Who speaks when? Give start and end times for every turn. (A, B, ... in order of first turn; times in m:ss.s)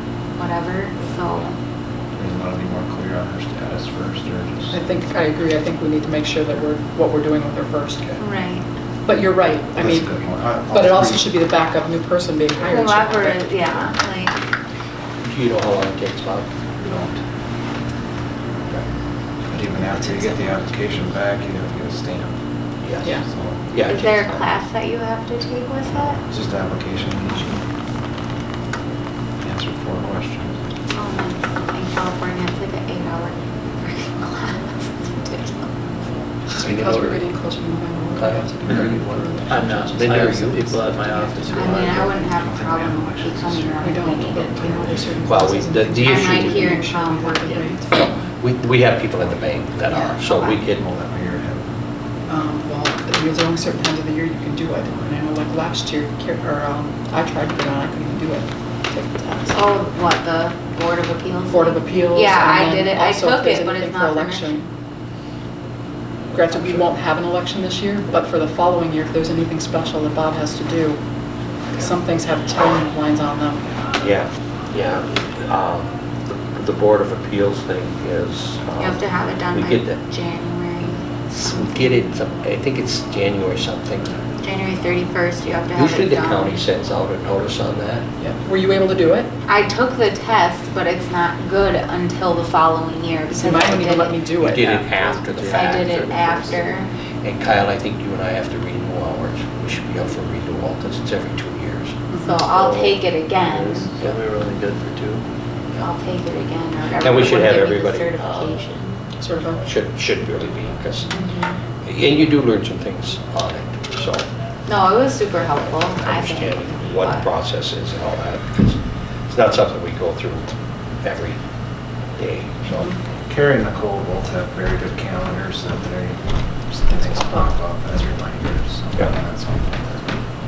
0:00.4-0:01.6 A
0:02.2-0:04.8 B
0:04.7-0:08.1 C
0:08.2-0:08.6 A
0:09.0-0:10.1 C
0:09.8-0:11.3 B
0:10.7-0:13.5 C
0:12.6-0:14.4 A
0:15.2-0:16.5 D
0:16.8-0:17.2 B
0:19.5-0:22.3 B
0:19.5-0:20.4 C
0:22.8-0:23.1 D
0:23.2-0:23.6 B
0:23.7-0:24.3 D
0:23.8-0:26.2 A
0:26.2-0:27.6 B
0:29.4-0:30.6 B
0:30.9-0:35.7 A
0:36.5-0:41.8 C
0:36.6-0:37.2 D
0:38.2-0:38.8 D
0:38.5-0:39.3 B
0:39.5-0:42.2 E
0:40.0-0:40.5 D
0:41.5-0:45.0 A
0:41.6-0:45.2 B
0:43.8-0:48.3 C
0:45.2-0:46.7 D
0:46.0-0:47.8 A
0:48.4-0:50.8 D
0:49.9-0:50.2 C
0:50.3-0:50.6 A
0:50.5-0:51.7 B
0:52.3-0:59.6 C
0:59.5-1:04.6 A
1:01.5-1:04.7 C
1:06.3-1:11.0 C
1:06.4-1:06.8 D
1:11.7-1:13.6 C
1:14.0-1:20.0 D
1:18.8-1:21.7 A
1:21.3-1:24.1 D
1:24.4-1:26.6 A
1:25.7-1:28.1 D
1:28.2-1:29.3 C
1:29.4-1:34.2 A
1:33.3-1:34.9 C
1:34.4-1:36.2 D
1:34.9-1:36.6 E
1:35.5-1:36.9 A
1:37.2-1:41.9 D
1:42.1-1:42.4 C
1:42.2-1:43.9 A
1:42.4-1:45.2 E
1:45.8-1:49.0 A
1:47.0-1:48.6 D
1:49.2-1:49.6 C
1:49.6-1:51.1 D
1:51.1-1:51.5 A
1:51.8-1:54.3 D
1:54.6-1:57.3 A
1:56.0-2:01.4 D
2:02.2-2:02.9 D
2:03.3-2:10.1 B
2:06.9-2:07.5 C